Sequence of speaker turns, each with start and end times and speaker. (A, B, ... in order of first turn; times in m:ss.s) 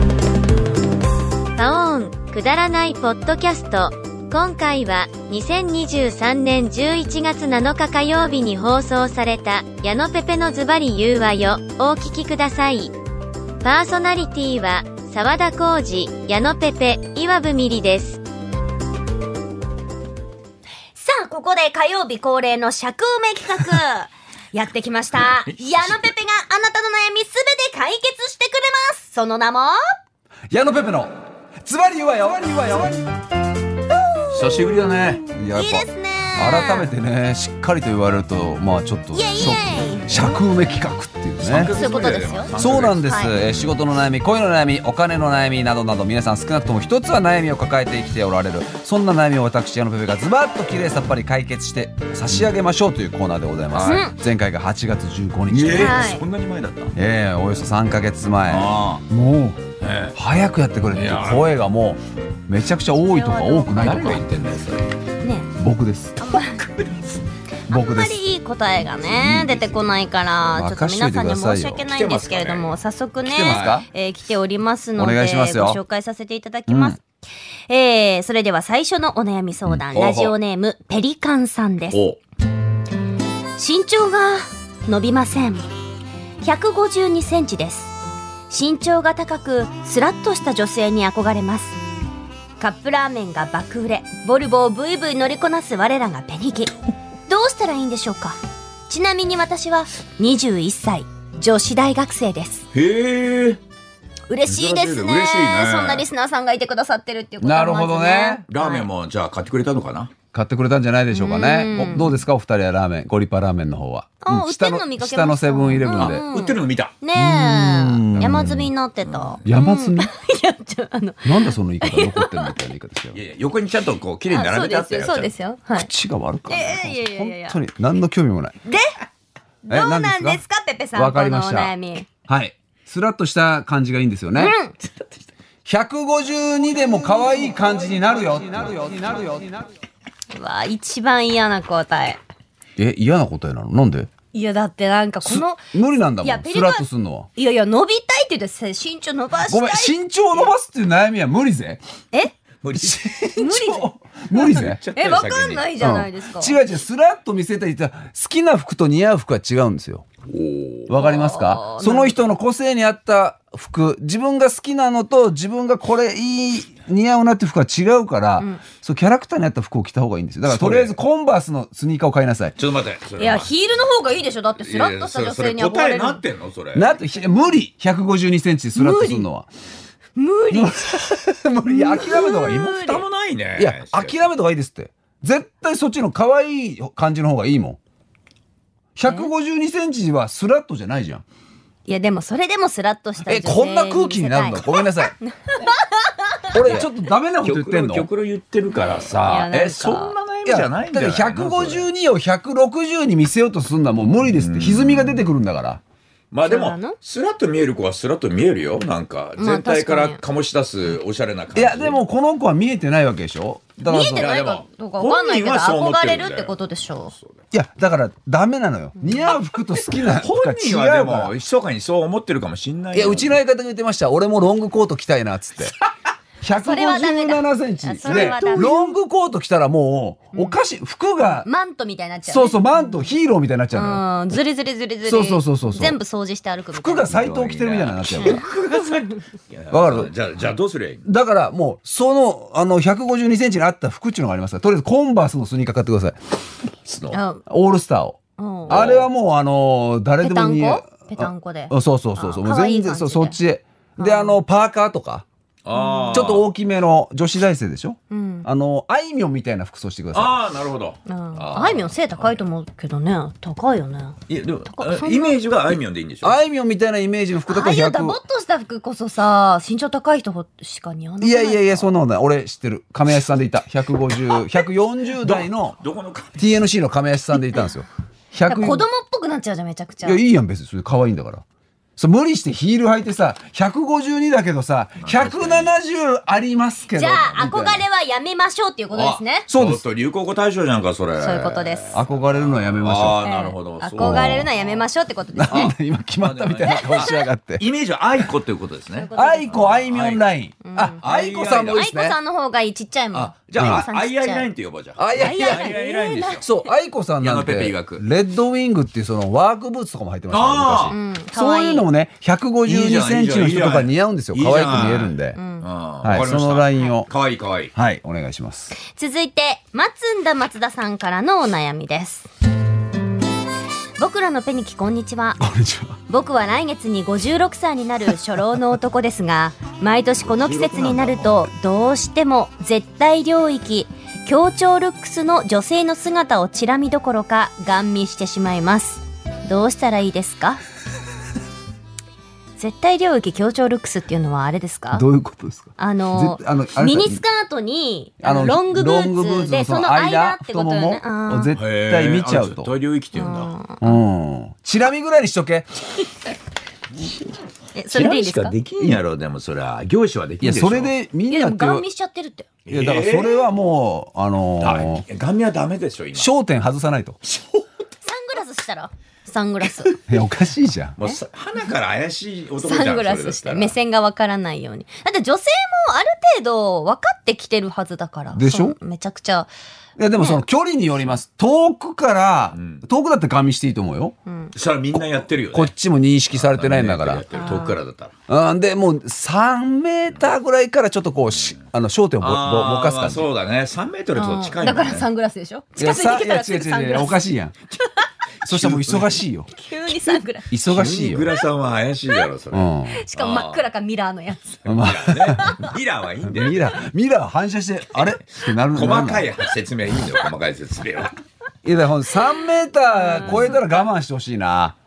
0:01.6-0:12.9 A
0:13.6-0:18.2 A
0:20.9-0:29.8 B
0:25.2-0:26.0 C
0:30.5-0:31.1 D
0:31.6-0:33.1 D
0:34.3-0:35.2 C
0:35.3-0:41.8 D
0:35.5-0:36.9 B
0:39.1-0:40.3 B
0:41.4-0:43.7 C
0:41.7-0:43.4 B
0:42.5-0:56.0 D
0:53.7-0:54.0 C
0:53.8-0:54.2 B
0:55.5-0:56.9 C
0:55.7-0:56.2 B
0:56.9-0:59.6 D
0:58.5-0:59.0 C
0:59.8-1:00.2 C
1:00.1-1:04.2 D
1:00.9-1:01.5 C
1:03.1-1:04.2 B
1:03.8-1:04.9 C
1:05.2-1:05.5 B
1:05.5-1:06.2 D
1:06.2-1:06.6 B
1:06.4-1:07.2 C
1:07.7-1:08.2 D
1:07.7-1:17.0 B
1:09.0-1:09.8 D
1:10.5-1:11.8 D
1:11.9-1:12.7 C
1:13.2-1:13.8 D
1:13.4-1:13.8 C
1:15.0-1:15.8 D
1:16.7-1:17.0 D
1:17.7-1:22.0 B
1:19.9-1:20.3 C
1:21.9-1:22.2 C
1:23.6-1:25.7 B
1:26.4-1:27.9 B
1:28.5-1:31.8 B
1:32.6-1:36.7 B
1:37.3-1:42.7 B
1:42.7-1:43.6 C
1:44.3-1:48.9 B
1:44.5-1:46.1 C
1:47.4-1:48.4 D
1:48.5-1:50.1 C
1:50.3-1:56.2 D
1:51.1-1:52.2 B
1:51.8-1:52.1 C
1:54.2-2:02.5 B
1:55.9-1:57.0 C
1:57.1-1:58.7 D
1:58.2-1:58.4 C
1:59.4-2:00.1 D
2:01.2-2:03.2 D
2:03.1-2:05.3 C
2:04.3-2:05.9 B
2:05.8-2:08.6 D
2:06.5-2:07.6 B
2:08.6-2:08.9 B
2:09.6-2:12.1 B
2:09.7-2:10.4 D
2:10.9-2:11.7 D
2:12.3-2:14.5 D
2:14.4-2:14.8 B
2:15.6-2:19.7 D
2:17.0-2:17.4 B
2:20.3-2:22.2 B
2:22.8-2:24.1 D
2:24.3-2:25.6 B
2:25.2-2:27.3 D
2:26.2-2:29.9 B
2:29.4-2:31.8 D
2:32.6-2:33.0 C
2:32.7-2:34.8 D
2:33.4-2:36.6 B
2:34.3-2:35.7 C
2:35.8-2:40.0 D
2:40.3-2:41.0 C
2:40.9-2:52.6 D
2:41.0-2:42.2 B
2:50.4-2:50.9 C
2:52.6-2:53.5 C
2:53.2-2:56.2 B
2:54.6-2:56.9 C
2:56.7-2:59.5 D
2:58.8-2:59.3 B
3:00.2-3:03.0 B
3:00.5-3:02.7 D
3:02.4-3:04.2 C
3:03.6-3:07.8 D
3:09.0-3:11.2 D
3:11.8-3:16.8 B
3:13.2-3:15.2 D
3:16.5-3:18.1 D
3:17.4-3:21.8 C
3:19.2-3:20.1 B
3:20.4-3:25.8 D
3:24.3-3:25.2 C
3:26.3-3:32.0 C
3:26.4-3:27.0 B
3:29.4-3:30.2 B
3:31.5-3:34.3 D
3:33.8-3:37.1 B
3:34.2-3:36.6 C
3:37.5-3:41.3 D
3:39.8-3:43.4 C
3:42.9-3:45.7 D
3:46.4-3:51.5 D
3:46.5-3:48.9 B
3:48.0-3:48.6 C
3:51.2-3:53.0 B
3:52.2-3:54.0 D
3:53.7-3:57.2 B
3:55.0-3:56.0 D
3:56.7-3:58.4 D
3:57.1-4:01.0 C
3:58.2-3:58.4 B
3:59.7-4:00.1 D
4:01.0-4:06.2 D
4:06.8-4:07.2 C
4:07.1-4:07.4 B
4:07.5-4:15.2 D
4:08.4-4:08.8 B
4:08.6-4:09.1 C
4:10.2-4:13.4 B
4:14.0-4:14.4 B
4:15.6-4:16.5 C
4:15.7-4:16.3 B
4:16.1-4:20.4 D
4:18.1-4:18.5 B
4:20.1-4:22.0 C
4:21.1-4:25.4 B
4:24.3-4:26.4 C
4:26.2-4:28.2 D
4:27.5-4:31.9 B
4:31.2-4:35.8 D
4:35.2-4:36.5 C
4:36.4-4:38.8 D
4:38.5-4:40.2 B
4:40.0-4:41.4 D
4:42.0-4:47.8 D
4:45.0-4:45.7 C
4:46.9-4:49.5 B
4:48.9-4:54.8 C
4:49.5-4:49.8 D
4:51.2-4:52.0 B
4:51.9-4:53.2 D
4:53.2-4:55.7 B
4:54.0-4:54.5 D
4:55.3-4:57.6 D
4:55.5-4:59.1 C
4:56.7-4:57.2 B
4:58.9-4:59.9 B
4:59.1-5:02.2 D
4:59.9-5:00.2 C
5:00.6-5:01.0 B
5:01.0-5:01.8 C
5:01.7-5:04.5 B
5:03.2-5:06.5 C
5:03.5-5:03.8 D
5:05.0-5:05.7 D
5:05.2-5:06.6 B
5:06.4-5:15.4 D
5:07.2-5:08.0 C
5:10.3-5:10.9 C
5:10.9-5:11.9 B
5:12.6-5:17.7 C
5:15.3-5:15.7 B
5:16.0-5:17.1 D
5:17.7-5:18.7 D
5:18.8-5:22.3 B
5:24.0-5:25.4 B
5:25.4-5:26.0 D
5:26.1-5:40.6 B
5:30.2-5:31.4 C
5:42.6-5:45.1 B
5:44.9-5:47.2 D
5:45.8-5:51.5 B
5:48.2-5:52.7 D
5:51.5-5:53.5 C
5:53.1-5:54.0 B
5:53.8-5:55.7 D
5:57.7-5:58.6 B
5:57.9-6:00.9 C
6:00.4-6:01.8 D
6:01.3-6:02.5 B
6:02.7-6:03.5 C
6:02.7-6:05.0 D
6:04.6-6:06.3 C
6:06.1-6:07.2 D
6:07.3-6:07.6 C
6:08.0-6:09.9 B
6:10.0-6:11.0 D
6:11.0-6:13.7 C
6:12.6-6:19.5 B
6:18.3-6:18.8 D
6:20.0-6:24.1 D
6:20.1-6:20.4 B
6:22.5-6:22.8 C
6:24.3-6:24.5 B
6:24.5-6:25.7 C
6:24.9-6:27.2 D
6:26.3-6:28.1 C
6:27.3-6:27.8 B
6:28.3-6:33.3 D
6:32.2-6:35.1 C
6:34.1-6:37.2 B
6:35.8-6:37.5 D
6:38.4-6:39.5 D
6:38.4-6:39.2 C
6:39.6-6:40.5 B
6:40.5-6:41.3 D
6:40.6-6:43.6 C
6:42.5-6:43.0 D
6:42.9-6:44.6 B
6:44.6-6:46.8 C
6:44.6-6:45.6 D
6:45.4-6:45.7 B
6:46.2-6:49.3 D
6:48.5-6:51.1 C
6:51.6-6:54.8 D
6:52.9-6:53.6 B